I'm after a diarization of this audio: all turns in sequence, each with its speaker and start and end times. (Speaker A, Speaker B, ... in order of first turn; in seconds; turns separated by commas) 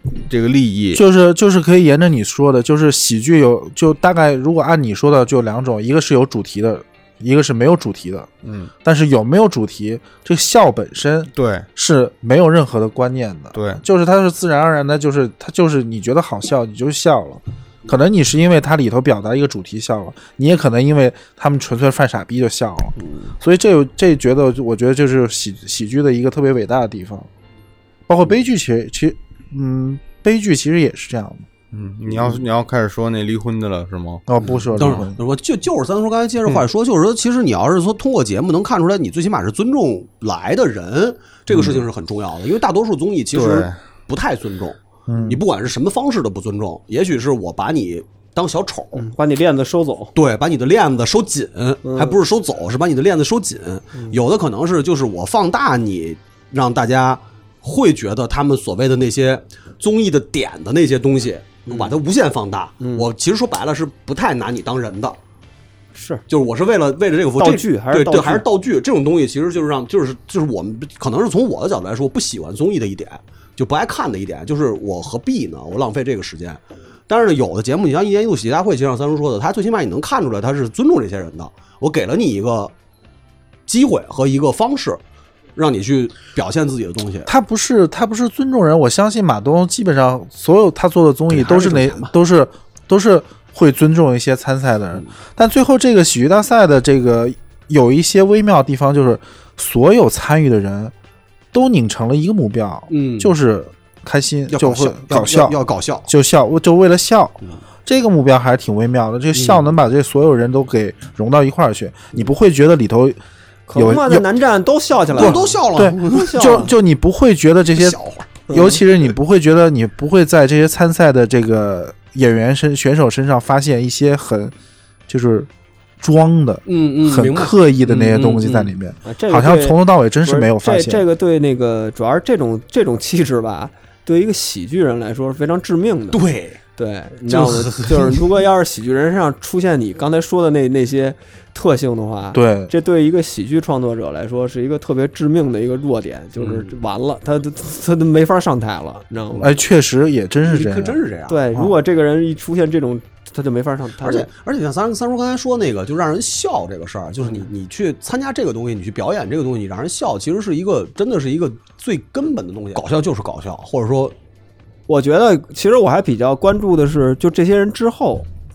Speaker A: 0.3-1.0, Speaker B: 0.9-8.3, Speaker A: 8.4-8.7, Speaker B: 8.8-27.3, Speaker A: 11.3-11.7, Speaker A: 13.5-13.8, Speaker C: 23.0-23.3, Speaker B: 28.1-31.4, Speaker A: 31.7-34.2, Speaker B: 34.3-35.2, Speaker D: 34.7-49.0, Speaker A: 34.8-35.0, Speaker A: 41.5-41.8, Speaker A: 43.3-43.8, Speaker B: 45.1-45.4, Speaker C: 48.9-50.1, Speaker D: 50.1-65.2, Speaker C: 51.8-52.2, Speaker C: 61.7-61.9, Speaker C: 62.8-63.1, Speaker C: 65.9-66.2, Speaker D: 66.3-82.7, Speaker C: 67.4-68.5, Speaker D: 83.7-85.0, Speaker D: 85.5-87.3, Speaker B: 87.3-100.9, Speaker D: 91.3-92.1, Speaker B: 101.5-105.5, Speaker D: 102.9-103.3, Speaker D: 104.5-106.1, Speaker B: 106.1-113.2, Speaker D: 109.3-109.7, Speaker C: 113.7-115.5, Speaker B: 113.7-114.2, Speaker D: 115.1-116.7, Speaker B: 115.2-118.0, Speaker C: 116.0-116.7, Speaker D: 117.7-118.3, Speaker C: 118.5-118.8, Speaker B: 118.5-124.5, Speaker B: 125.1-125.5, Speaker B: 126.0-131.0, Speaker D: 126.7-128.7, Speaker C: 129.0-136.2, Speaker D: 136.1-136.6, Speaker C: 136.8-149.5, Speaker D: 137.2-138.3, Speaker B: 142.3-142.7, Speaker D: 146.4-146.7, Speaker B: 149.4-151.0, Speaker D: 150.4-151.4, Speaker C: 151.3-154.3, Speaker D: 154.0-164.1, Speaker C: 164.9-168.3